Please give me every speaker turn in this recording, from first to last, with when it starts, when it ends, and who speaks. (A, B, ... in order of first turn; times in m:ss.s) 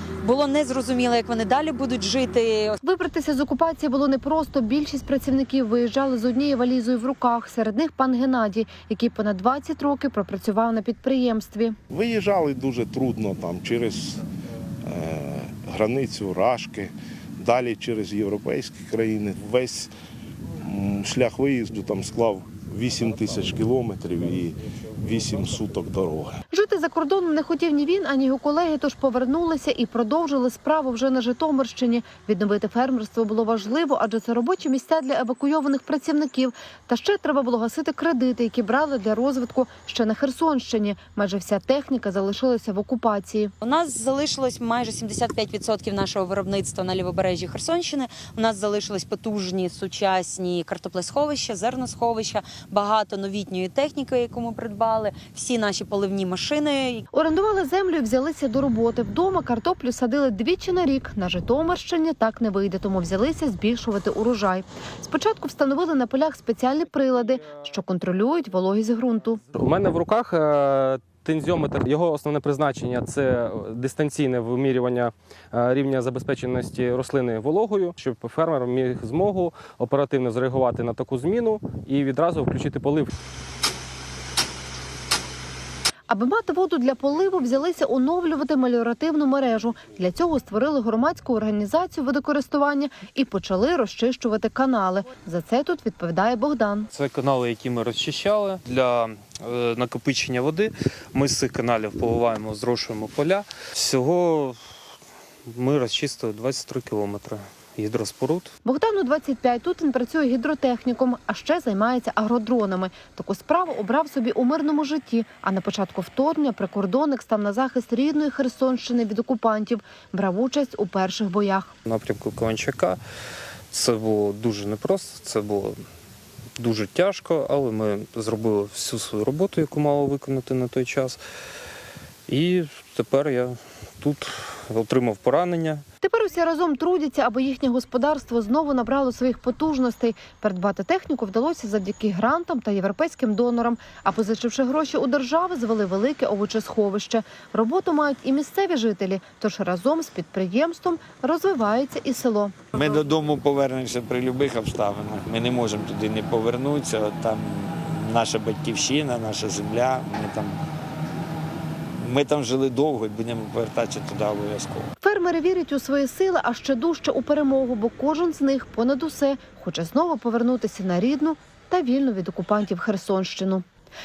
0:00.2-0:02.8 A
0:02.8-0:11.8 B
0:11.9-0:14.2 C
0:14.9-0:19.9 C
0:20.6-0:26.4 C
0:26.5-0:43.5 B
0:43.6-0:57.0 A
0:57.1-1:09.4 B
1:09.5-1:23.1 D
1:26.1-1:36.9 B
1:36.9-1:44.6 E
1:45.5-1:48.5 E
1:48.6-2:01.7 B
2:01.8-2:03.0 E
2:03.7-2:05.8 E
2:06.6-2:11.2 E
2:12.3-2:15.8 E
2:16.0-2:32.7 B
2:32.7-2:40.6 F
2:42.0-2:44.9 F
2:45.0-2:53.6 B